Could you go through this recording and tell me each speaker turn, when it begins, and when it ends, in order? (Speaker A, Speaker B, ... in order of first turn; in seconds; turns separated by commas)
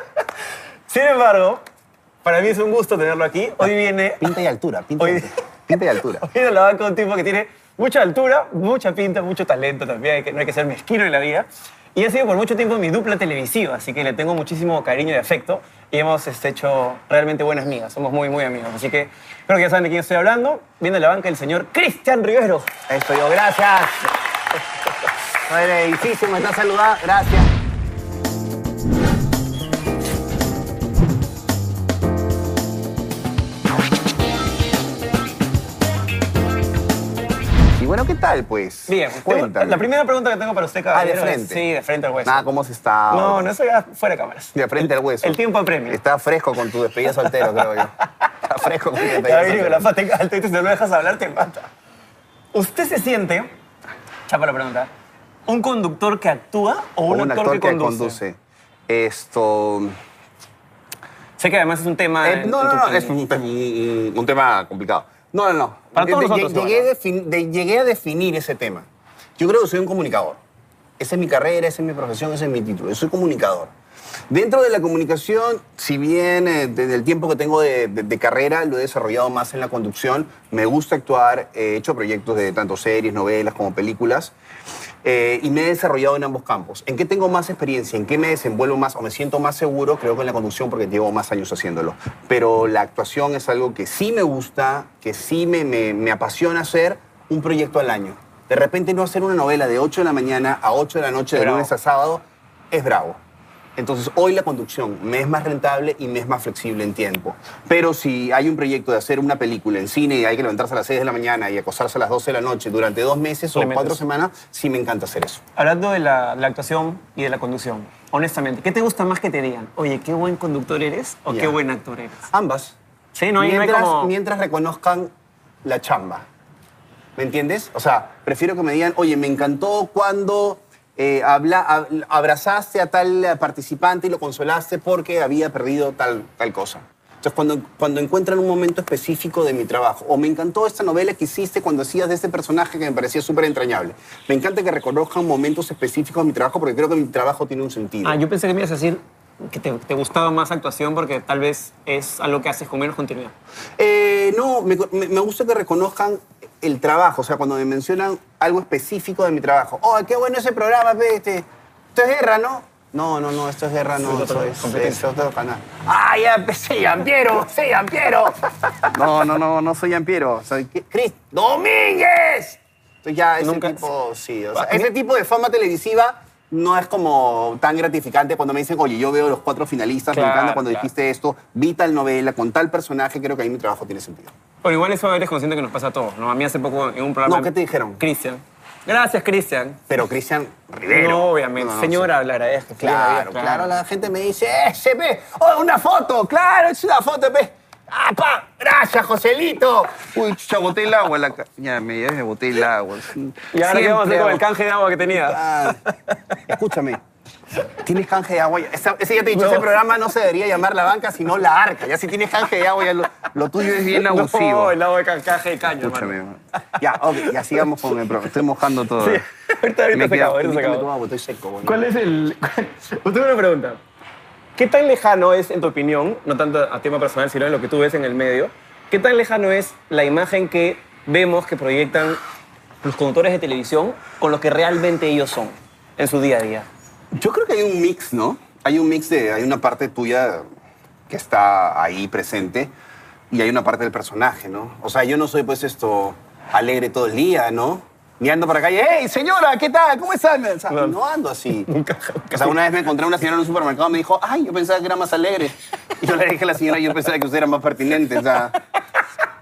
Speaker A: 0.9-1.6, Speaker A: 2.2-4.3, Speaker B: 4.2-6.2, Speaker A: 5.0-5.3, Speaker A: 6.1-22.7, Speaker B: 22.9-24.1, Speaker B: 25.4-27.5, Speaker B: 37.7-39.8, Speaker A: 38.9-42.4, Speaker B: 40.9-41.6, Speaker B: 42.2-43.5, Speaker A: 43.1-46.0, Speaker B: 44.5-49.9, Speaker A: 47.4-47.8, Speaker A: 49.0-51.7, Speaker A: 52.5-53.5, Speaker A: 54.3-54.9, Speaker A: 55.5-58.2, Speaker B: 57.1-60.0, Speaker A: 61.4-63.1, Speaker B: 62.2-68.8, Speaker A: 65.9-66.8, Speaker B: 69.4-70.4, Speaker B: 71.0-73.7, Speaker B: 74.3-84.3, Speaker B: 85.0-103.2, Speaker A: 101.3-101.7, Speaker B: 103.8-115.4, Speaker A: 113.5-114.0, Speaker A: 115.5-122.3, Speaker B: 121.3-121.5, Speaker B: 122.3-122.8, Speaker A: 123.1-124.1, Speaker B: 123.4-125.1, Speaker B: 125.6-126.2, Speaker B: 127.2-148.2, Speaker A: 148.0-153.3, Speaker B: 153.8-168.3, Speaker A: 164.0-165.0, Speaker B: 168.9-184.3, Speaker A: 173.4-173.8, Speaker A: 174.5-174.9, Speaker A: 180.1-180.9, Speaker A: 184.6-189.8, Speaker B: 187.2-188.0, Speaker B: 189.9-192.1, Speaker A: 190.9-193.8, Speaker B: 192.8-204.5, Speaker A: 203.5-206.4, Speaker B: 205.1-205.8, Speaker B: 206.4-207.0, Speaker B: 207.8-214.8, Speaker A: 209.3-209.8, Speaker A: 213.7-216.1, Speaker B: 215.6-219.2, Speaker A: 216.8-218.2, Speaker A: 219.0-220.9, Speaker B: 219.9-221.8, Speaker A: 221.6-223.8, Speaker A: 224.6-232.2, Speaker A: 232.8-236.7, Speaker B: 237.1-240.4, Speaker B: 241.1-242.7, Speaker B: 243.3-251.7, Speaker A: 250.7-250.9, Speaker A: 251.7-252.6, Speaker B: 252.3-258.6